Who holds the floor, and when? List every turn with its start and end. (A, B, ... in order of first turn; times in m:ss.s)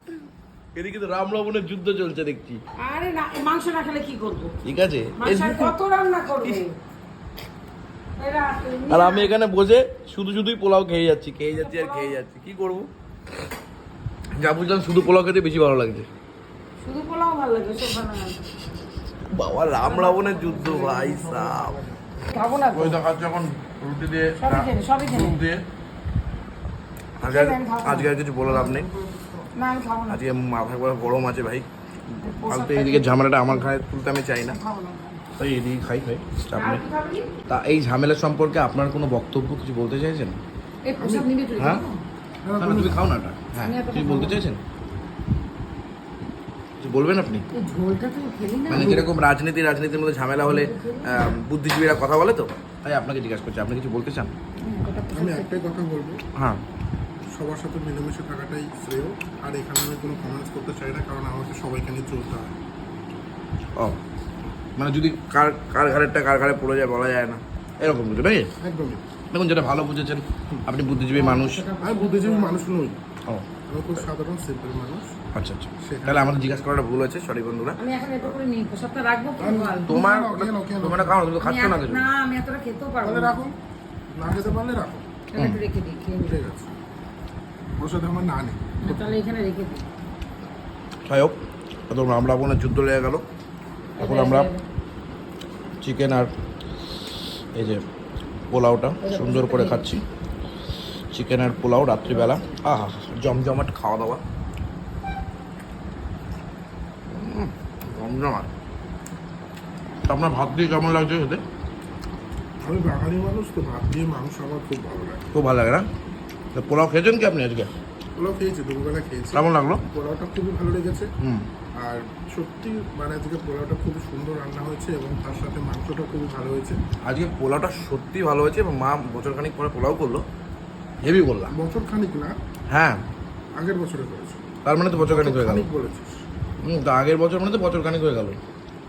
0:00.8-0:02.6 A
0:02.8-0:04.6 B
0:04.6-0:05.8 A
0:05.2-0:06.7 B
0:08.2-0:09.3 B
0:08.9-0:12.9 A
0:11.5-0:12.2 B
0:14.4-0:16.1 A
0:16.8-0:18.6 B
0:19.3-0:21.8 A
0:19.8-0:22.3 C
0:20.0-0:20.4 B
0:22.3-0:23.0 B
0:22.7-0:25.6 A
0:24.4-0:25.4 B
0:27.2-0:28.9 A
0:27.2-0:28.1 B
0:28.7-0:29.4 C
0:29.6-0:30.2 B
0:30.1-0:34.6 A
0:32.2-0:33.7 B
0:34.5-0:35.2 B
0:35.4-0:36.8 A
0:36.6-0:37.4 B
0:37.5-0:40.4 A
0:40.8-0:42.0 B
0:41.0-0:41.3 C
0:41.6-0:41.8 A
0:42.4-0:43.0 C
0:42.6-0:44.6 A
0:43.6-0:44.4 B
0:46.8-0:47.4 A
0:47.5-0:49.0 B
0:48.7-0:54.3 A
0:48.7-0:49.1 C
0:50.4-0:51.4 B
0:54.6-0:55.6 B
0:55.1-0:56.2 C
0:56.4-0:56.6 A
0:57.3-1:02.6 C
1:04.8-1:08.5 A
1:08.6-1:09.0 C
1:09.3-1:11.7 A
1:11.1-1:12.6 B
1:11.8-1:13.0 C
1:13.7-1:15.2 C
1:15.3-1:17.8 A
1:15.8-1:16.5 C
1:17.8-1:20.0 B
1:19.4-1:21.2 C
1:19.9-1:22.1 A
1:21.4-1:23.4 B
1:23.0-1:23.6 C
1:24.1-1:25.1 C
1:24.2-1:24.6 B
1:25.3-1:26.4 B
1:26.2-1:26.7 C
1:27.8-1:29.2 C
1:28.8-1:29.9 B
1:31.0-1:31.4 A
1:31.9-1:33.2 A
1:34.0-1:34.6 B
1:34.0-1:34.5 A
1:35.8-1:36.3 A
1:37.5-1:37.8 A
1:38.5-1:40.0 A
1:39.0-1:39.9 B
1:41.1-1:44.2 A
1:42.1-1:42.7 B
1:47.1-1:48.5 A
1:50.1-1:51.4 A
1:52.6-1:55.3 C
1:55.3-1:55.9 A
1:56.5-1:57.7 A
1:58.2-2:01.1 C
1:59.3-1:59.8 A
2:01.2-2:01.5 A
2:01.8-2:06.8 C
2:07.0-2:10.2 A
2:11.0-2:11.5 A
2:11.5-2:12.4 C
2:12.7-2:13.0 A
2:13.6-2:14.4 C
2:14.6-2:15.7 A
2:15.0-2:16.2 C
2:16.6-2:18.4 A